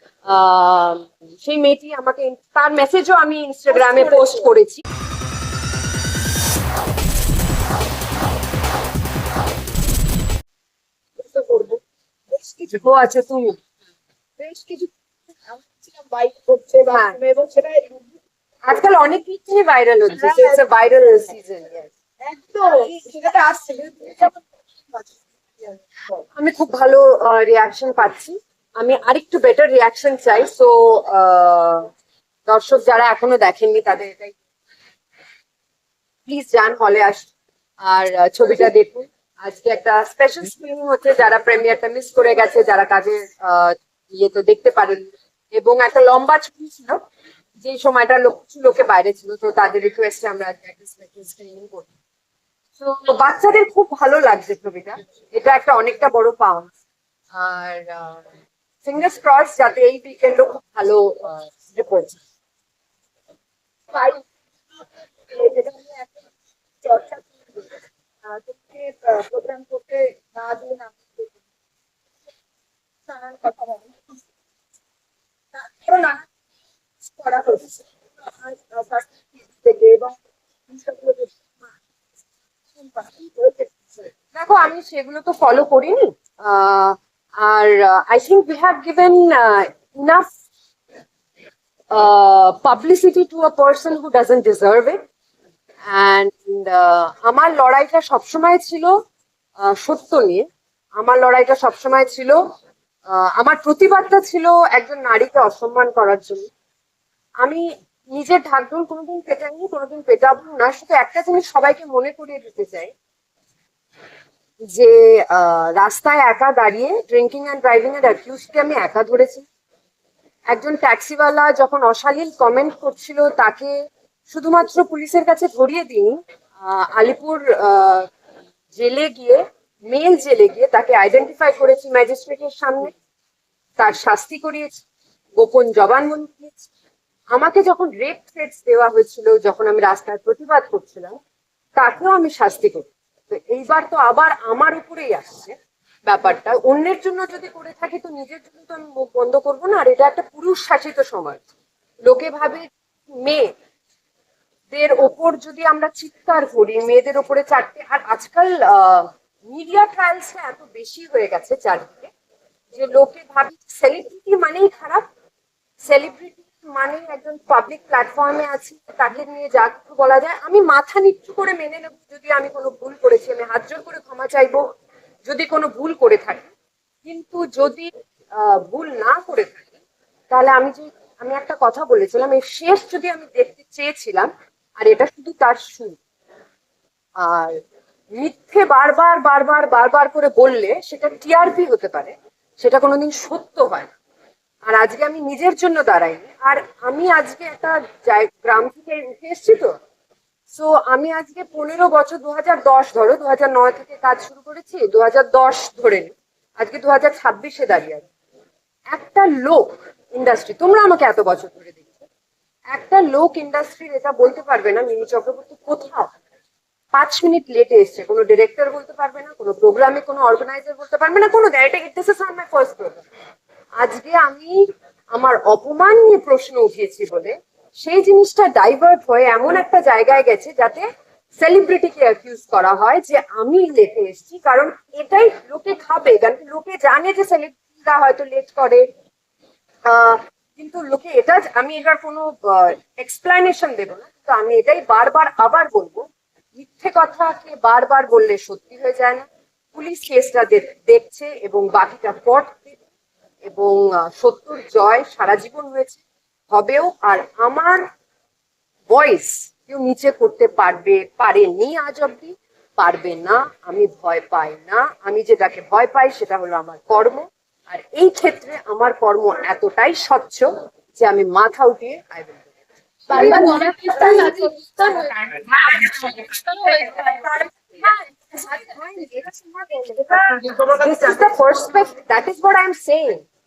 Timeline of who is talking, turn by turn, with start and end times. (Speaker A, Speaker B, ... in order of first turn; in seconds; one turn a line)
Speaker A: 0.3-4.8
Speaker B: 3.7-4.5
Speaker B: 11.2-11.8
Speaker B: 12.3-12.7
Speaker A: 12.7-13.6
Speaker B: 14.4-18.2
Speaker A: 16.9-17.2
Speaker A: 18.7-21.9
Speaker B: 20.1-20.6
Speaker B: 22.2-25.8
Speaker A: 26.3-31.9
Speaker A: 32.5-34.4
Speaker A: 36.2-37.3
Speaker A: 37.8-47.0
Speaker A: 47.6-51.9
Speaker A: 52.8-56.7
Speaker A: 57.3-58.2
Speaker A: 58.8-62.2
Speaker B: 63.9-66.3
Speaker B: 66.8-71.4
Speaker B: 73.1-74.2
Speaker B: 75.5-76.3
Speaker B: 77.1-80.2
Speaker B: 80.7-81.8
Speaker B: 82.7-84.1
Speaker A: 84.3-90.2
Speaker A: 91.9-95.0
Speaker A: 95.9-98.9
Speaker A: 99.6-100.5
Speaker A: 101.0-102.4
Speaker A: 103.1-106.5
Speaker A: 107.4-112.9
Speaker A: 114.7-119.5
Speaker A: 120.5-123.7
Speaker A: 124.3-128.1
Speaker A: 128.7-132.9
Speaker A: 133.8-134.8
Speaker A: 135.4-136.7
Speaker A: 137.3-141.2
Speaker A: 141.8-145.5
Speaker A: 146.1-151.4
Speaker A: 152.0-152.7
Speaker A: 153.2-153.5
Speaker A: 154.7-162.1
Speaker A: 162.7-165.0
Speaker A: 165.8-174.6
Speaker A: 175.2-176.5
Speaker A: 177.0-179.8
Speaker A: 180.3-186.0
Speaker A: 187.2-187.6
Speaker A: 188.2-193.9
Speaker A: 194.7-199.7
Speaker A: 200.5-208.0
Speaker A: 208.9-212.0
Speaker A: 212.7-216.1
Speaker A: 216.9-223.0
Speaker A: 223.8-230.8
Speaker A: 231.4-238.8
Speaker A: 239.9-252.8
Speaker A: 253.4-257.8
Speaker A: 258.9-272.5
Speaker A: 273.1-274.6
Speaker B: 273.1-277.4
Speaker A: 277.8-283.2
Speaker B: 278.4-280.9